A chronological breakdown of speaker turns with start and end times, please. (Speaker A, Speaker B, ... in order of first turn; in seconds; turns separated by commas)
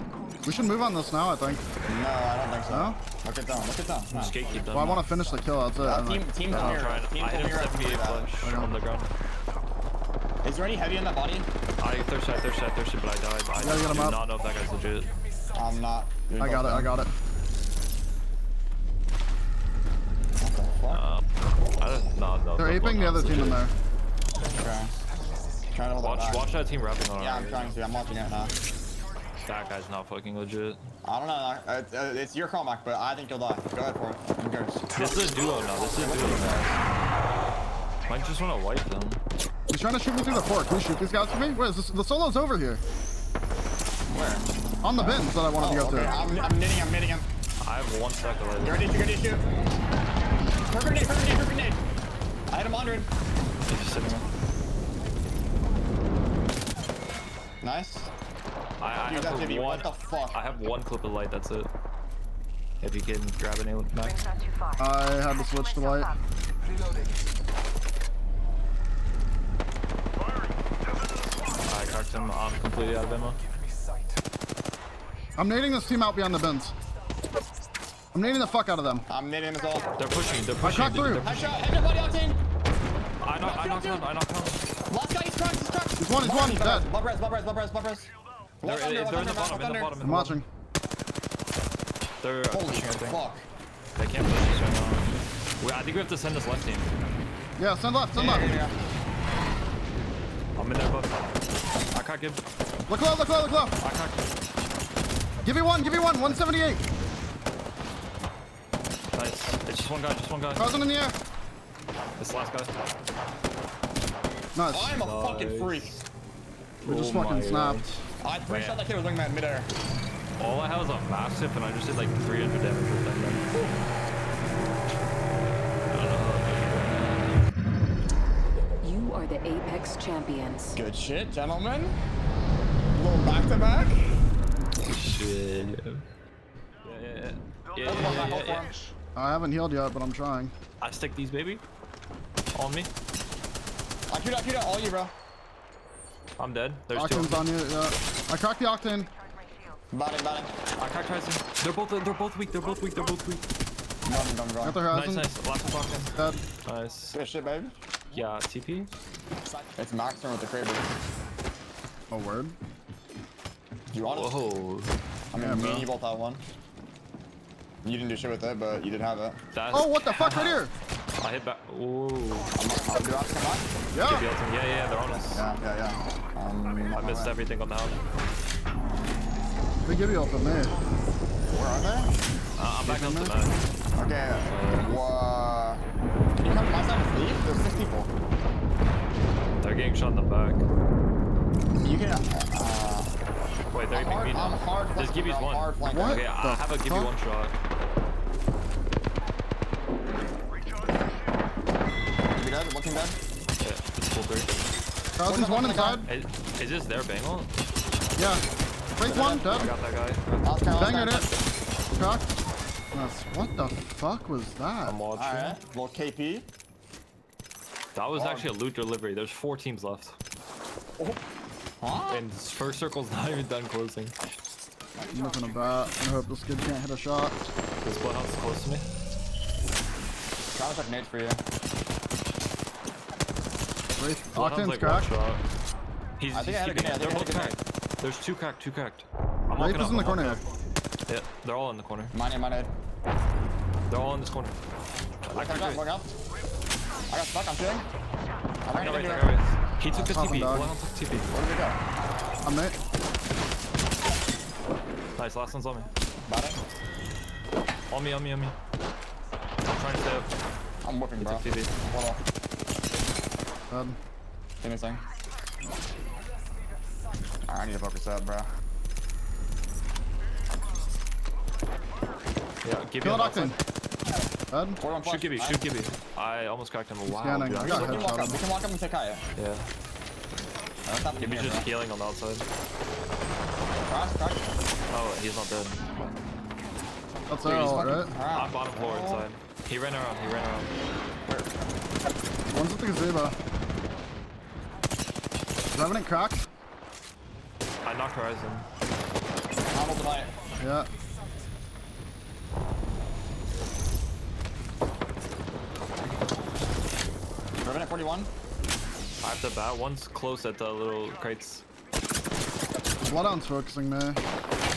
Speaker A: 0.4-1.6, Speaker B: 1.8-4.4, Speaker A: 2.7-3.0, Speaker C: 4.1-5.1, Speaker A: 4.7-6.9, Speaker B: 5.8-8.3, Speaker C: 6.5-9.1, Speaker A: 8.4-8.7, Speaker B: 10.4-11.5, Speaker C: 11.8-15.1, Speaker A: 13.6-14.2, Speaker B: 15.5-16.9, Speaker A: 16.4-17.1, Speaker B: 20.4-21.0, Speaker C: 20.9-21.2, Speaker C: 21.8-23.6, Speaker A: 22.6-23.7, Speaker B: 24.5-24.9, Speaker B: 25.7-26.5, Speaker C: 26.0-27.8, Speaker B: 27.2-28.5, Speaker C: 29.4-30.8, Speaker B: 31.0-36.8, Speaker C: 34.9-36.6, Speaker C: 38.0-39.2, Speaker A: 39.7-42.8, Speaker B: 44.1-47.3, Speaker A: 44.8-46.2, Speaker C: 47.6-48.9, Speaker B: 48.6-49.5, Speaker B: 50.7-51.8, Speaker B: 52.5-53.1, Speaker C: 53.6-54.2, Speaker B: 57.6-58.1, Speaker C: 58.8-61.7, Speaker B: 59.0-60.4, Speaker C: 62.8-64.2, Speaker A: 64.8-66.1, Speaker C: 71.6-73.4, Speaker A: 75.4-76.7, Speaker A: 78.1-79.1, Speaker B: 79.1-79.9, Speaker C: 80.0-81.6, Speaker A: 80.6-81.3, Speaker B: 81.2-82.4, Speaker C: 83.2-84.6, Speaker B: 83.4-84.1, Speaker B: 84.8-89.9, Speaker A: 86.0-86.9, Speaker C: 88.6-90.4, Speaker A: 90.0-90.5, Speaker C: 92.2-93.2, Speaker B: 92.5-93.5, Speaker C: 94.0-96.9, Speaker A: 97.6-98.6, Speaker B: 98.1-98.8, Speaker C: 100.5-101.2, Speaker C: 101.9-102.4, Speaker A: 102.9-103.8, Speaker C: 103.8-104.2, Speaker A: 105.4-106.8, Speaker C: 109.1-110.7, Speaker A: 110.5-111.2, Speaker C: 112.2-112.7, Speaker A: 114.5-114.9, Speaker B: 114.7-116.0, Speaker C: 114.9-115.9, Speaker A: 116.8-118.0, Speaker C: 116.8-118.8, Speaker B: 118.2-119.7, Speaker C: 120.4-123.5, Speaker C: 125.9-127.3, Speaker D: 128.8-130.8, Speaker B: 130.7-131.9, Speaker B: 132.9-134.2, Speaker C: 134.9-136.0, Speaker C: 136.8-138.7, Speaker B: 137.8-138.8, Speaker A: 139.1-140.5, Speaker C: 140.8-141.6, Speaker C: 142.5-142.9, Speaker B: 144.1-145.1, Speaker C: 146.4-147.5, Speaker A: 146.9-149.1, Speaker B: 149.9-150.5, Speaker C: 150.8-153.4, Speaker B: 154.1-154.8, Speaker A: 154.6-155.3, Speaker C: 154.9-156.1, Speaker A: 156.1-156.4, Speaker C: 156.6-157.1, Speaker B: 157.1-157.7, Speaker C: 158.1-158.9, Speaker B: 159.4-160.9, Speaker A: 162.1-162.6, Speaker B: 163.9-164.4, Speaker C: 164.0-164.9, Speaker B: 165.3-166.4, Speaker A: 165.3-165.9, Speaker B: 167.8-169.4, Speaker C: 169.5-170.6, Speaker A: 169.7-170.7, Speaker C: 171.2-172.5, Speaker B: 172.5-173.7, Speaker A: 173.9-174.3, Speaker C: 174.0-175.5, Speaker B: 175.3-177.3, Speaker C: 176.9-178.0, Speaker A: 179.8-180.8, Speaker B: 181.5-182.1, Speaker C: 182.6-183.6, Speaker A: 182.8-183.3, Speaker B: 183.9-185.8, Speaker C: 184.5-185.0, Speaker B: 186.4-188.1, Speaker C: 189.6-190.6, Speaker B: 191.8-193.2, Speaker C: 193.7-197.5, Speaker B: 193.9-196.2, Speaker A: 195.8-197.1, Speaker B: 202.3-203.2, Speaker C: 203.6-204.5, Speaker A: 205.2-206.1, Speaker B: 205.2-206.1, Speaker C: 206.0-207.5, Speaker A: 208.2-208.4, Speaker A: 209.0-209.7, Speaker B: 209.1-209.4, Speaker C: 209.4-210.6, Speaker B: 210.4-211.3, Speaker A: 210.7-211.3, Speaker A: 211.9-212.3, Speaker A: 212.9-215.0, Speaker C: 214.8-215.6, Speaker B: 215.1-216.5, Speaker C: 217.9-220.2, Speaker B: 218.1-218.5, Speaker B: 221.8-222.2, Speaker C: 222.1-224.1, Speaker B: 225.0-225.7, Speaker A: 225.1-227.4, Speaker C: 227.8-228.9, Speaker B: 230.5-231.4, Speaker A: 234.0-235.1, Speaker C: 234.3-235.4, Speaker C: 236.2-240.4, Speaker B: 236.3-237.6, Speaker A: 239.6-240.4, Speaker C: 241.1-242.1, Speaker B: 242.1-242.7, Speaker C: 243.9-244.6, Speaker C: 245.2-245.9, Speaker B: 245.3-246.2, Speaker B: 247.1-247.9, Speaker B: 248.6-249.3, Speaker C: 248.7-251.3, Speaker A: 249.9-250.7, Speaker B: 251.3-251.8, Speaker A: 252.4-252.8, Speaker C: 255.2-255.9, Speaker B: 256.3-256.6, Speaker C: 257.9-258.6, Speaker C: 259.6-260.3, Speaker B: 260.8-262.2, Speaker C: 261.2-261.7, Speaker A: 263.7-264.0, Speaker B: 264.6-265.0, Speaker B: 267.5-268.5, Speaker C: 272.6-273.6, Speaker A: 273.0-273.6, Speaker A: 274.5-274.8, Speaker B: 274.8-275.6, Speaker C: 275.0-278.1, Speaker A: 277.1-278.4, Speaker B: 277.6-279.2, Speaker C: 279.4-279.7, Speaker B: 280.9-281.7, Speaker C: 281.2-282.4, Speaker B: 283.8-284.5, Speaker C: 284.9-285.9, Speaker A: 287.3-288.1, Speaker C: 287.4-290.7, Speaker B: 288.0-289.3, Speaker A: 292.5-293.4, Speaker A: 295.7-296.5, Speaker C: 297.8-298.6, Speaker B: 299.7-300.3, Speaker A: 300.6-300.9, Speaker B: 307.6-308.3, Speaker C: 309.2-311.6, Speaker A: 313.0-314.2